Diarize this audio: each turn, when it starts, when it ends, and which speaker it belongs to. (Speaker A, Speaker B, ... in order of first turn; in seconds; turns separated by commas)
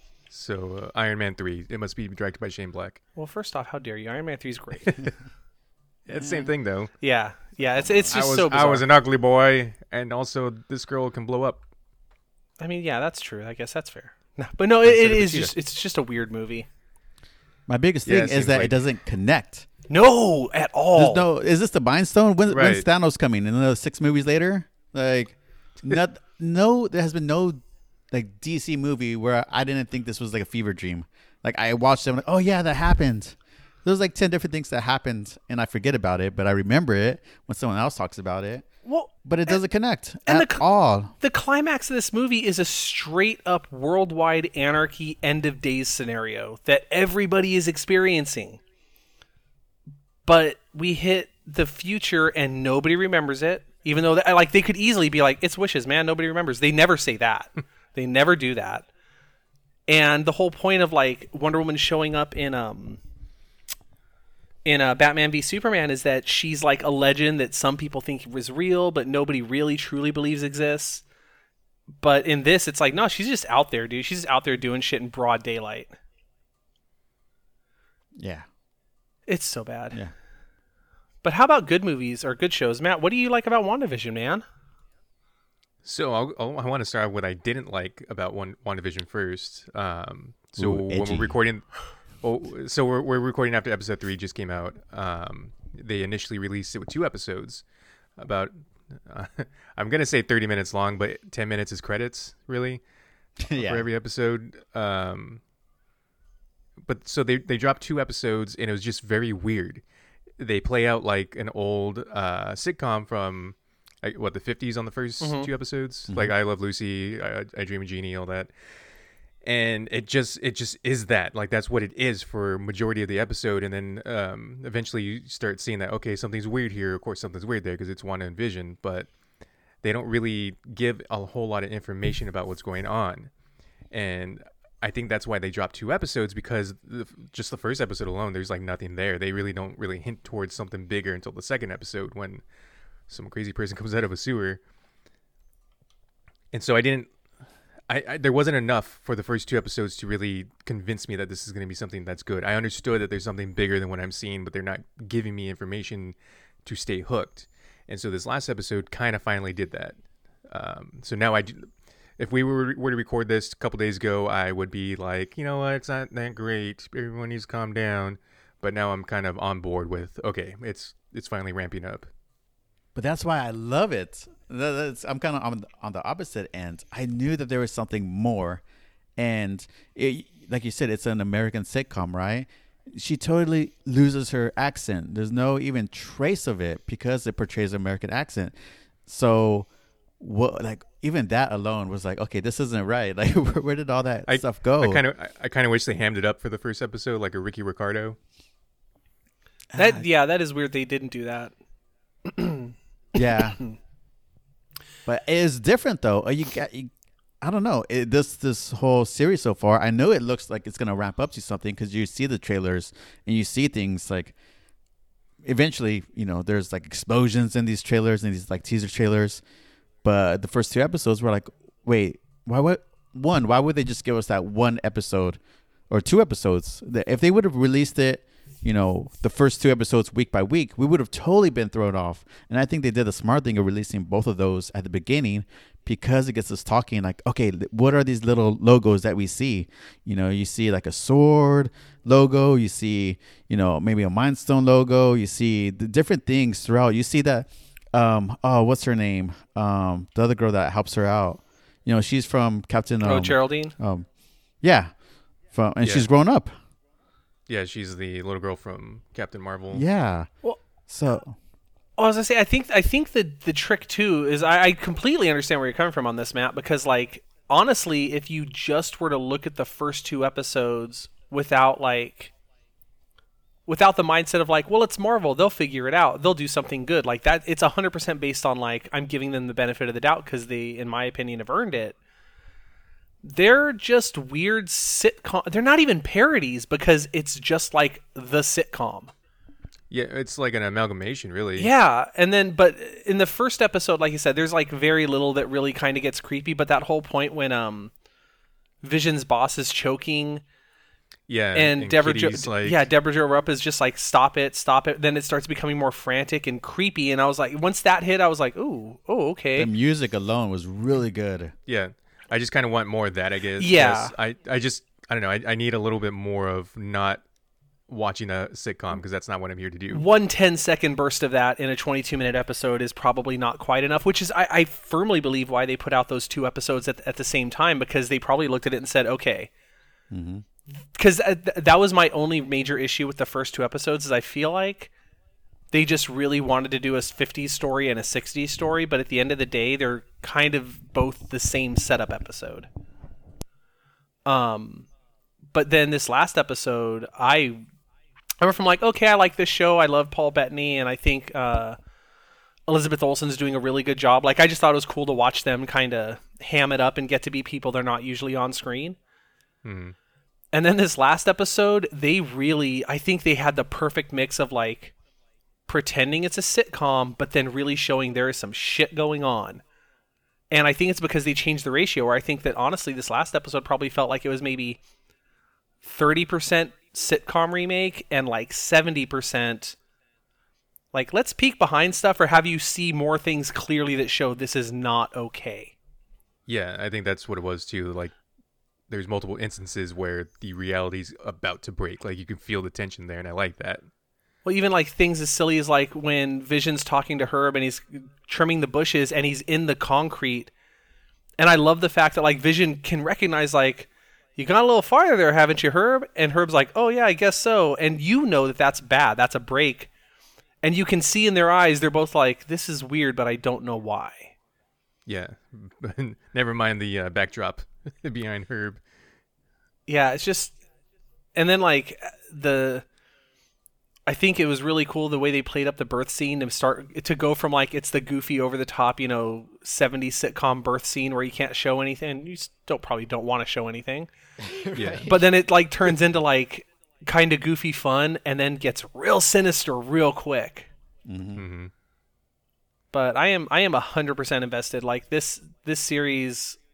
Speaker A: 0.3-3.0, Speaker B: 3.1-5.1, Speaker A: 6.0-6.9, Speaker B: 7.0-8.8, Speaker C: 7.8-8.1, Speaker A: 8.1-11.6, Speaker B: 12.6-16.7, Speaker A: 14.8-15.5, Speaker C: 17.7-19.7, Speaker A: 18.1-18.8, Speaker B: 19.9-21.2, Speaker C: 21.0-27.6, Speaker A: 22.5-22.9, Speaker C: 28.1-38.7, Speaker B: 38.8-39.6, Speaker C: 39.2-41.1, Speaker B: 40.2-40.6, Speaker B: 41.2-48.6, Speaker B: 50.2-58.9, Speaker B: 59.9-63.0, Speaker B: 64.7-71.0, Speaker B: 72.0-76.0, Speaker C: 78.2-78.5, Speaker B: 79.3-80.0, Speaker B: 81.2-84.4, Speaker A: 85.8-97.6, Speaker C: 90.6-91.3, Speaker A: 98.2-102.8, Speaker C: 103.4-103.9, Speaker A: 103.5-105.4, Speaker A: 106.8-109.8, Speaker A: 110.4-118.5, Speaker B: 115.2-115.5, Speaker A: 119.4-129.1, Speaker A: 129.8-133.3, Speaker A: 133.9-142.4, Speaker A: 143.1-144.6, Speaker A: 146.5-147.1, Speaker A: 147.9-172.1, Speaker C: 172.9-178.6, Speaker C: 179.2-188.5, Speaker C: 189.1-189.7, Speaker C: 190.2-195.0, Speaker A: 194.3-198.2, Speaker C: 199.7-200.1, Speaker B: 199.8-201.5, Speaker B: 202.2-203.7, Speaker C: 203.1-203.6, Speaker C: 205.1-206.9, Speaker C: 207.4-214.3, Speaker C: 215.4-219.4, Speaker C: 220.0-225.4, Speaker C: 225.9-254.1, Speaker B: 253.0-253.7, Speaker C: 254.6-254.9, Speaker C: 255.5-256.5, Speaker A: 255.8-256.1, Speaker A: 257.5-259.8, Speaker C: 259.7-260.3, Speaker C: 260.9-261.4, Speaker B: 262.0-272.3, Speaker B: 273.7-281.9, Speaker B: 283.2-289.1, Speaker A: 289.9-291.7, Speaker B: 291.6-297.9, Speaker B: 298.8-300.4, Speaker A: 301.3-302.8, Speaker B: 301.5-309.7, Speaker C: 309.5-311.5, Speaker A: 311.7-317.2, Speaker B: 313.6-314.1, Speaker A: 317.9-320.1, Speaker B: 319.9-329.5, Speaker C: 330.1-330.4, Speaker B: 330.9-334.9, Speaker B: 335.7-342.7, Speaker B: 344.2-344.9, Speaker B: 345.5-347.6, Speaker B: 348.4-351.8, Speaker B: 352.7-359.0, Speaker A: 359.6-359.9, Speaker B: 360.5-364.9, Speaker B: 365.7-369.6, Speaker B: 370.5-374.8, Speaker B: 375.8-379.8, Speaker B: 380.9-385.7, Speaker A: 386.5-388.1, Speaker A: 388.9-393.8, Speaker B: 394.4-400.5, Speaker B: 401.4-409.9, Speaker B: 410.6-414.3, Speaker A: 415.1-418.8, Speaker B: 419.9-420.5, Speaker B: 421.3-422.8, Speaker B: 424.1-434.1, Speaker C: 434.4-435.2, Speaker A: 434.7-435.1, Speaker B: 435.0-440.7, Speaker C: 441.0-441.4, Speaker A: 441.4-441.7, Speaker B: 442.9-446.6